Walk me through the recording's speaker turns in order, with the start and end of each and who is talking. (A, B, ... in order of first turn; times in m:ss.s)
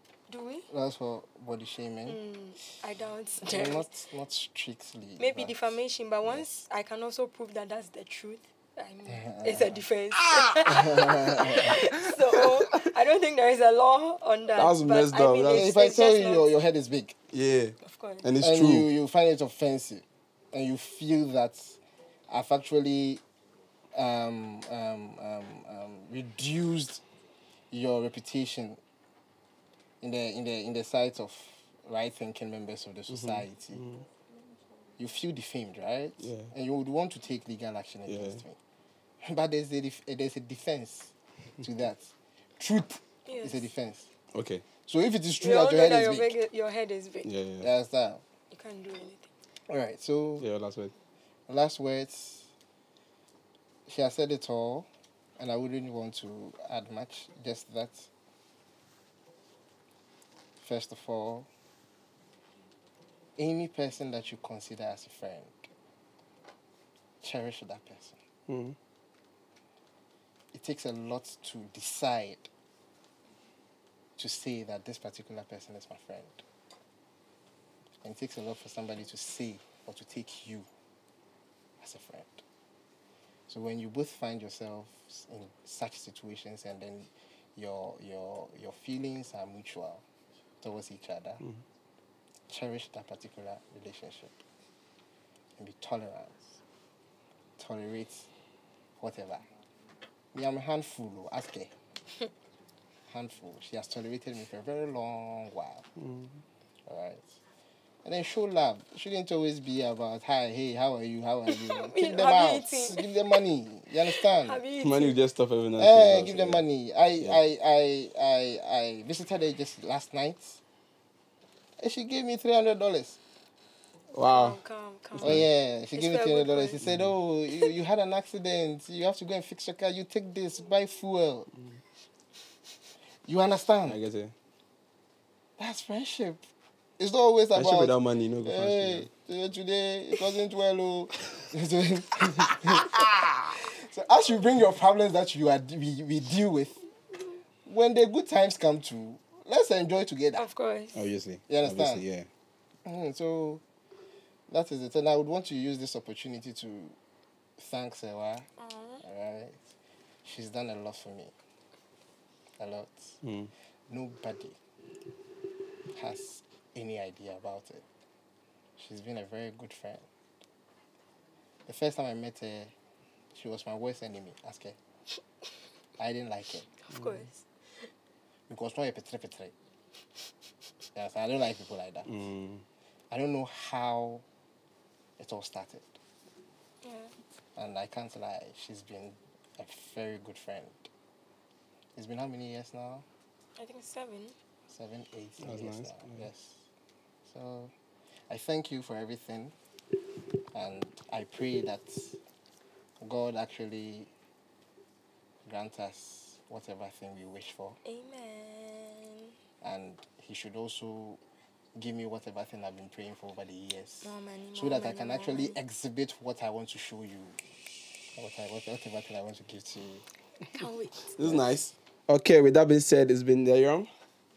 0:00.3-0:00.7 A
0:00.7-0:02.2 B
0:02.1-0:03.9 A
0:03.4-0:05.8 B
0:05.2-0:16.5 A
0:09.1-0:09.8 B
0:10.2-0:10.8 C
0:10.7-0:11.8 B
0:11.6-0:12.6 C
0:14.6-0:15.8 C
0:15.5-0:17.2 B
0:17.3-0:18.9 C
0:17.8-0:18.3 A
0:18.4-0:23.2 B
0:23.9-0:27.0 B
0:27.7-0:28.8 B
0:30.0-0:33.8 B
0:33.1-0:34.0 C
0:35.0-0:38.6 B
0:36.2-0:36.5 C
0:38.1-0:38.4 C
0:39.2-0:44.1 B
0:43.3-0:43.7 A
0:44.3-0:44.6 C
0:44.9-0:46.4 B
0:45.4-0:47.3 A
0:47.2-0:47.7 C
0:47.6-0:48.2 B
0:48.5-0:49.3 A
0:49.7-0:50.5 B
0:50.4-0:50.9 C
0:51.5-0:52.5 B
0:53.9-0:58.1 B
1:00.6-1:01.5 B
1:03.4-1:05.7 B
1:07.2-1:08.2 B
1:08.5-1:08.8 C
1:10.5-1:12.5 B
1:14.2-1:16.4 B
1:18.0-1:20.7 B
1:21.8-1:22.4 B
1:23.5-1:30.0 B
1:30.6-1:31.4 B
1:32.5-1:34.4 B
1:35.6-1:36.6 B
1:37.6-1:38.3 B
1:39.0-1:39.5 B
1:40.3-1:41.7 B
1:43.1-1:45.9 B
1:46.0-1:46.4 C
1:46.9-1:47.4 B
1:48.0-1:54.6 B
1:51.5-1:53.2 A
1:54.1-1:55.2 A
1:54.8-1:56.6 C
1:55.8-2:00.6 B
2:01.8-2:03.2 B
2:04.1-2:04.6 C
2:04.2-2:06.8 A
2:05.2-2:11.5 B
2:06.8-2:07.1 C
2:13.3-2:14.0 B
2:13.9-2:14.3 C
2:15.6-2:16.4 B
2:17.0-2:26.8 B
2:17.5-2:19.1 C
2:27.6-2:30.5 B
2:30.4-2:31.1 A
2:31.0-2:32.3 C
2:31.5-2:32.0 B
2:32.8-2:33.6 B
2:34.5-2:37.0 B
2:37.6-2:38.5 B
2:38.6-2:39.0 A
2:39.0-2:39.7 B
2:40.2-2:41.3 B
2:42.6-2:43.2 B
2:43.2-2:43.5 C
2:43.9-2:44.6 B
2:45.9-2:47.9 B
2:48.8-2:50.1 B
2:51.7-2:52.7 B
2:53.3-2:54.8 B
2:56.0-2:56.8 B
2:56.8-2:57.9 A
2:58.5-2:59.5 B
3:01.0-3:02.2 B
3:02.1-3:02.6 C
3:03.1-3:04.2 B
3:05.2-3:06.0 B
3:06.8-3:07.1 A
3:07.6-3:10.9 B
3:12.0-3:13.0 B
3:13.6-3:14.4 A
3:14.7-3:16.6 B
3:15.4-3:16.2 C
3:17.3-3:17.7 B
3:18.3-3:19.5 B
3:20.5-3:22.2 B
3:23.0-3:24.1 B
3:25.4-3:27.8 B
3:27.8-3:29.4 A
3:29.6-3:31.2 B
3:31.8-3:37.4 B
3:34.0-3:35.6 A
3:38.2-3:40.0 B
3:40.5-3:41.1 A
3:41.1-3:43.9 C
3:41.2-3:41.5 B